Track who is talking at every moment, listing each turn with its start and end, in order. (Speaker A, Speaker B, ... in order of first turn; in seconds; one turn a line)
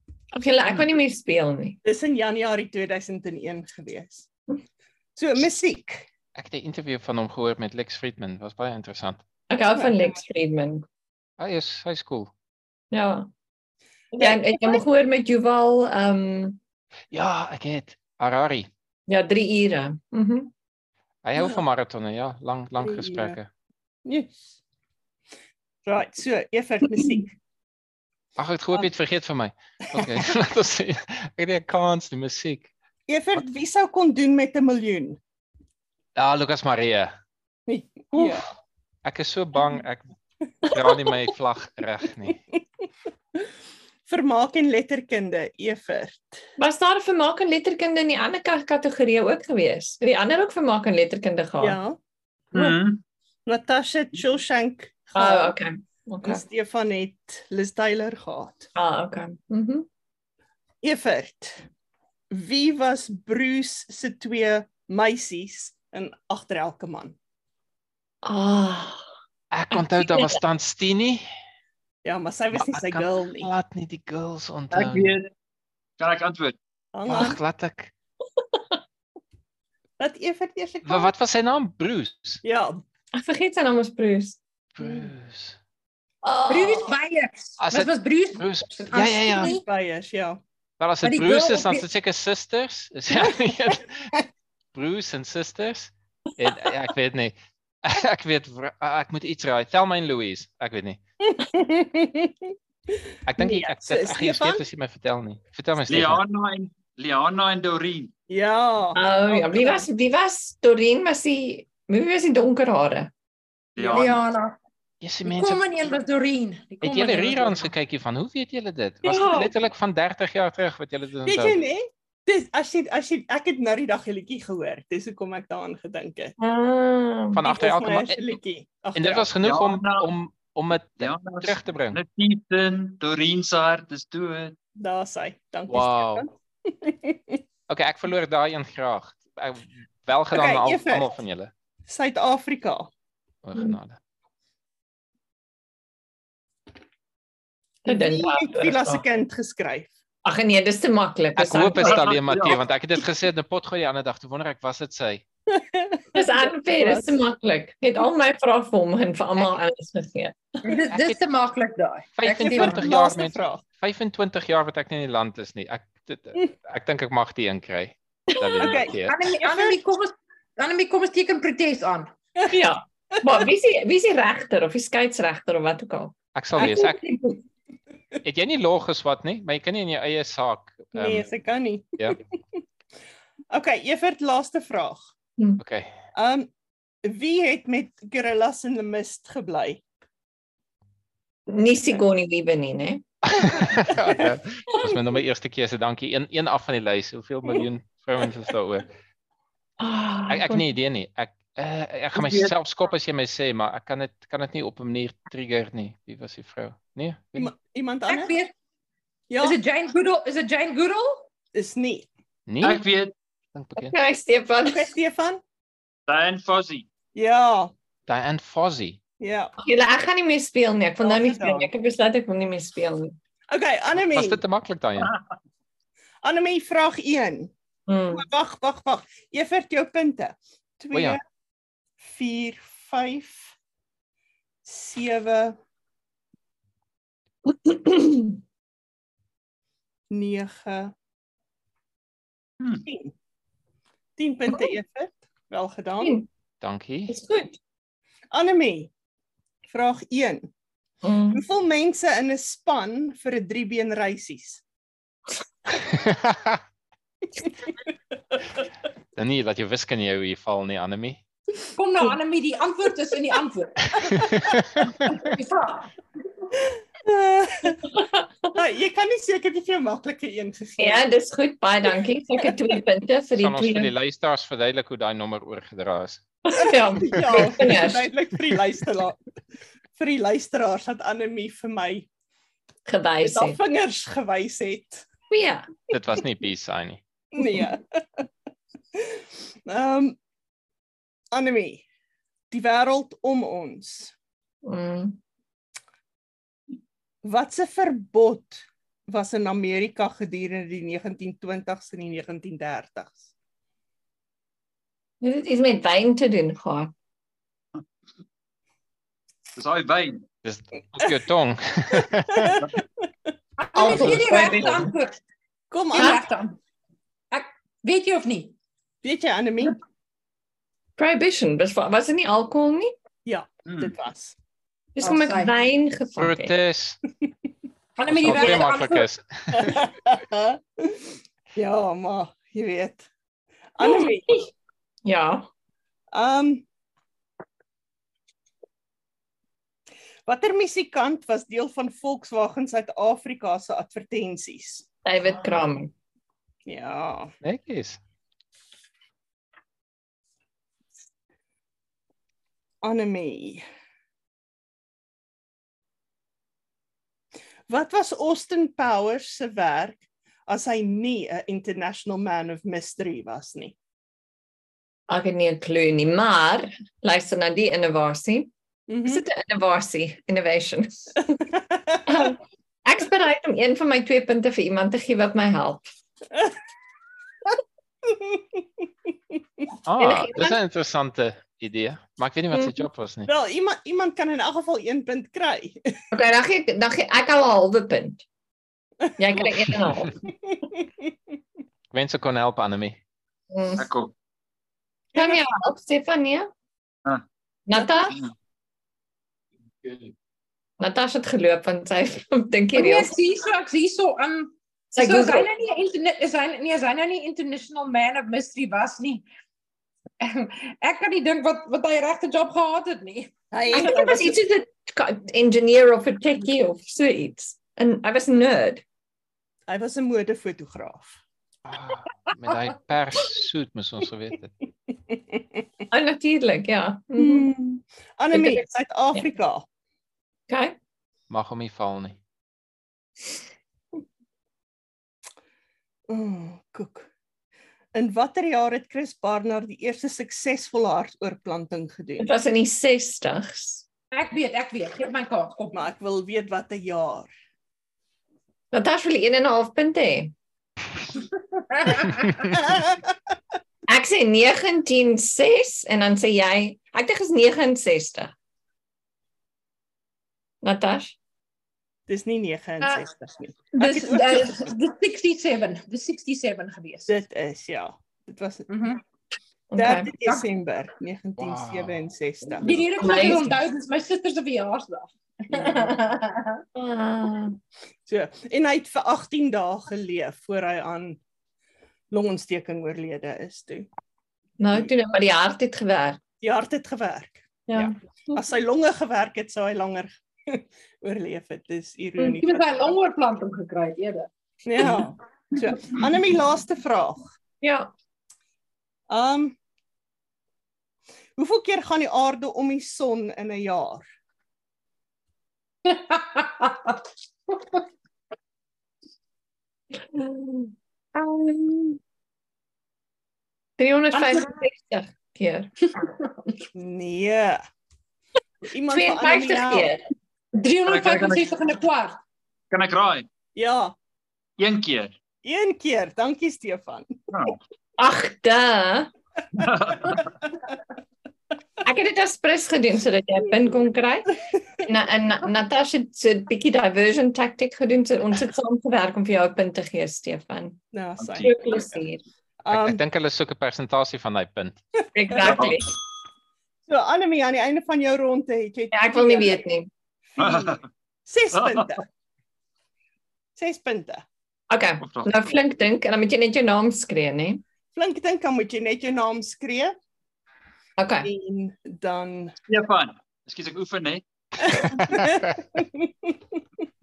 Speaker A: 0.3-1.8
Speaker B: 1.8-4.3
Speaker B: 5.2-6.1
Speaker C: 6.3-9.2
Speaker A: 9.5-10.8
Speaker B: 9.7-10.1
Speaker C: 11.4-12.3
Speaker A: 12.9-13.3
Speaker A: 14.1-16.6
Speaker B: 14.2-14.8
Speaker C: 17.1-18.7
Speaker A: 19.1-20.5
Speaker C: 21.2-23.5
Speaker B: 22.8-23.4
Speaker B: 24.0-24.6
Speaker B: 25.9-27.4
Speaker C: 28.4-32.7
Speaker B: 29.9-30.2
Speaker B: 33.1-35.2
Speaker C: 36.1-37.1
Speaker B: 37.7-38.5
Speaker C: 39.0-40.1
Speaker C: 40.6-42.4
Speaker B: 44.1-46.4
Speaker A: 46.6-51.8
Speaker B: 51.6-52.0
Speaker D: 52.5-53.0
Speaker B: 53.5-55.6
Speaker A: 55.1-56.4
Speaker B: 56.2-58.7
Speaker A: 58.8-59.9
Speaker B: 60.8-61.7
Speaker B: 62.3-67.2
Speaker A: 68.2-69.0
Speaker C: 69.5-71.2
Speaker A: 69.7-70.4
Speaker B: 72.0-73.5
Speaker C: 72.5-75.2
Speaker D: 74.7-75.3
Speaker D: 76.0-76.6
Speaker B: 76.9-77.4
Speaker C: 77.0-77.9
Speaker B: 80.0-81.1
Speaker C: 80.8-82.4
Speaker B: 82.4-82.8
Speaker A: 83.1-84.4
Speaker C: 84.8-85.6
Speaker A: 86.2-87.0
Speaker E: 86.5-89.6
Speaker C: 87.6-89.5
Speaker B: 89.4-90.4
Speaker C: 90.8-94.1
Speaker E: 91.0-91.8
Speaker C: 94.7-101.0
Speaker B: 101.2-104.6
Speaker C: 103.2-106.2
Speaker D: 105.9-108.1
Speaker B: 108.3-109.9
Speaker A: 108.9-113.1
Speaker D: 113.8-114.2
Speaker B: 113.8-114.1
Speaker E: 113.9-114.5
Speaker C: 115.0-115.6
Speaker E: 115.2-117.7
Speaker C: 116.8-121.6
Speaker A: 119.1-119.4
Speaker B: 119.1-119.5
Speaker B: 121.2-126.4
Speaker A: 126.4-127.4
Speaker C: 127.3-128.4
Speaker B: 127.4-129.3
Speaker C: 128.9-132.0
Speaker D: 129.4-130.1
Speaker D: 131.0-134.6
Speaker B: 134.8-137.4
Speaker C: 135.7-136.3
Speaker C: 137.7-141.5
Speaker B: 140.3-141.1
Speaker B: 141.9-142.9
Speaker C: 143.4-144.0
Speaker A: 147.8-149.0
Speaker B: 147.9-149.9
Speaker A: 150.2-152.1
Speaker C: 151.4-155.2
Speaker D: 151.8-152.6
Speaker B: 155.5-157.2
Speaker A: 156.1-160.4
Speaker E: 160.6-162.9
Speaker C: 160.9-161.2
Speaker C: 162.2-169.3
Speaker B: 162.4-163.6
Speaker B: 168.6-169.8
Speaker E: 169.1-172.1
Speaker A: 172.5-177.4
Speaker C: 176.3-177.0
Speaker C: 178.2-181.3
Speaker B: 180.9-182.2
Speaker B: 183.5-185.1
Speaker C: 185.6-185.9
Speaker B: 186.1-186.5
Speaker B: 187.0-189.8
Speaker A: 191.5-193.0
Speaker C: 193.2-198.9
Speaker B: 193.6-194.2
Speaker A: 199.8-200.7
Speaker C: 200.3-207.5
Speaker D: 202.1-202.5
Speaker B: 207.3-208.3
Speaker E: 208.1-208.5
Speaker B: 209.3-209.6
Speaker E: 209.4-211.3
Speaker B: 211.5-212.1
Speaker C: 212.5-212.8
Speaker D: 212.6-213.1
Speaker C: 213.5-213.9
Speaker A: 213.8-214.9
Speaker B: 214.6-215.4
Speaker D: 216.1-216.9
Speaker B: 217.1-217.7
Speaker C: 218.1-219.0
Speaker B: 219.2-219.5
Speaker A: 219.6-223.2
Speaker B: 221.0-221.7
Speaker B: 223.5-224.4
Speaker C: 224.1-225.1
Speaker B: 226.2-227.5
Speaker A: 227.9-228.2
Speaker B: 228.1-231.2
Speaker C: 230.9-231.2
Speaker B: 232.0-233.5
Speaker B: 234.6-235.6
Speaker A: 237.5-238.4
Speaker B: 240.1-240.9
Speaker B: 242.8-243.1
Speaker B: 244.2-246.2
Speaker A: 246.0-246.3
Speaker C: 246.6-247.1
Speaker A: 247.1-247.6
Speaker B: 248.3-248.9
Speaker B: 249.7-250.5
Speaker A: 251.0-251.4
Speaker B: 251.3-254.6
Speaker C: 255.9-256.6
Speaker C: 259.1-261.2
Speaker E: 261.8-264.3
Speaker C: 264.1-264.9
Speaker E: 265.0-265.9
Speaker B: 267.0-267.8
Speaker A: 267.9-268.5
Speaker B: 268.5-271.0
Speaker A: 270.8-273.9
Speaker C: 273.4-276.2
Speaker A: 276.5-278.1
Speaker B: 276.6-279.2
Speaker B: 280.0-282.1
Speaker A: 282.9-283.6
Speaker B: 283.2-285.1
Speaker A: 285.3-285.7
Speaker C: 285.9-287.0
Speaker B: 287.3-288.2
Speaker B: 288.9-290.1
Speaker B: 291.3-291.9
Speaker B: 292.5-294.1
Speaker A: 294.6-295.2
Speaker B: 297.2-303.3
Speaker A: 305.2-306.9
Speaker D: 309.6-310.2
Speaker C: 310.4-312.6
Speaker B: 312.3-313.0
Speaker E: 313.6-315.2
Speaker A: 313.8-314.9
Speaker C: 313.8-314.8
Speaker B: 315.7-316.2
Speaker E: 315.9-316.6
Speaker A: 315.9-316.2
Speaker E: 317.3-318.5
Speaker B: 319.0-319.8
Speaker A: 321.0-322.9
Speaker B: 323.2-324.4
Speaker D: 323.7-323.9
Speaker A: 325.0-326.5
Speaker E: 325.0-325.5
Speaker C: 326.2-327.0
Speaker E: 328.0-329.1
Speaker C: 328.1-329.9
Speaker B: 329.5-333.1
Speaker B: 333.8-334.5
Speaker A: 333.8-334.1
Speaker A: 335.0-335.5
Speaker B: 336.1-336.6
Speaker B: 340.2-344.9
Speaker A: 345.0-345.9
Speaker B: 346.7-347.3
Speaker C: 347.4-348.0
Speaker B: 352.8-353.6
Speaker B: 357.7-363.8
Speaker A: 365.1-368.5
Speaker B: 368.9-369.2
Speaker A: 369.0-371.4
Speaker B: 371.7-372.0
Speaker A: 372.1-375.8
Speaker B: 378.0-378.9
Speaker C: 379.9-383.3
Speaker A: 380.0-380.6
Speaker B: 383.2-385.9
Speaker A: 386.1-388.2
Speaker A: 389.2-390.2
Speaker B: 390.5-391.1
Speaker C: 391.9-393.0
Speaker A: 393.5-393.8
Speaker D: 393.8-394.1
Speaker B: 395.1-395.4
Speaker A: 395.1-396.5
Speaker A: 397.7-398.2
Speaker D: 399.8-400.1
Speaker A: 400.8-403.1
Speaker E: 402.7-409.2
Speaker A: 404.9-405.5
Speaker E: 410.2-413.3
Speaker B: 413.5-414.4
Speaker A: 413.7-418.8
Speaker B: 419.7-421.2
Speaker C: 421.7-424.5
Speaker B: 425.1-425.4
Speaker A: 425.9-427.5
Speaker B: 427.2-429.7
Speaker A: 428.3-429.3
Speaker A: 430.5-430.8
Speaker C: 431.3-432.2
Speaker B: 436.1-437.1
Speaker B: 437.9-442.3
Speaker A: 442.2-443.8
Speaker E: 444.1-445.8
Speaker B: 445.7-447.3
Speaker A: 448.7-450.3
Speaker E: 451.7-452.3
Speaker B: 452.7-453.0
Speaker A: 453.9-458.3
Speaker A: 460.6-461.2
Speaker B: 462.1-464.7
Speaker E: 463.7-467.1
Speaker B: 467.1-468.7
Speaker E: 468.7-469.0
Speaker A: 469.7-470.1
Speaker B: 469.8-473.3
Speaker C: 471.4-472.1
Speaker E: 472.6-476.6
Speaker A: 473.0-473.5
Speaker A: 476.8-477.6
Speaker B: 478.1-481.2
Speaker B: 482.1-483.9
Speaker A: 484.6-486.2
Speaker B: 486.4-492.9
Speaker A: 487.7-488.4
Speaker E: 492.4-494.3
Speaker B: 494.7-497.3
Speaker A: 497.6-497.9
Speaker B: 499.1-499.6
Speaker B: 501.4-504.1
Speaker E: 505.8-507.8
Speaker A: 510.1-512.0
Speaker A: 513.8-515.7
Speaker E: 514.1-514.5
Speaker E: 516.0-516.2
Speaker B: 516.8-517.6
Speaker B: 518.6-519.9
Speaker A: 518.9-520.0
Speaker E: 520.5-522.2
Speaker D: 520.8-521.5
Speaker D: 522.7-523.3
Speaker B: 523.5-524.0
Speaker D: 524.6-525.1
Speaker B: 525.4-527.2
Speaker D: 527.3-527.6
Speaker A: 528.0-529.1
Speaker D: 529.5-530.3
Speaker A: 531.8-540.8
Speaker B: 540.9-542.0
Speaker D: 541.2-541.5
Speaker A: 541.3-542.2
Speaker B: 542.6-543.0
Speaker C: 542.7-544.8
Speaker A: 545.1-545.9
Speaker B: 545.3-545.8
Speaker D: 545.4-545.8
Speaker B: 546.9-549.6
Speaker A: 548.9-549.9
Speaker B: 550.3-552.0
Speaker D: 550.4-550.8
Speaker D: 551.5-552.0
Speaker B: 553.5-554.2
Speaker A: 554.7-557.6
Speaker D: 555.0-555.4
Speaker B: 557.9-559.9
Speaker A: 561.0-561.3
Speaker B: 561.2-562.5
Speaker D: 562.7-564.8
Speaker B: 564.7-566.4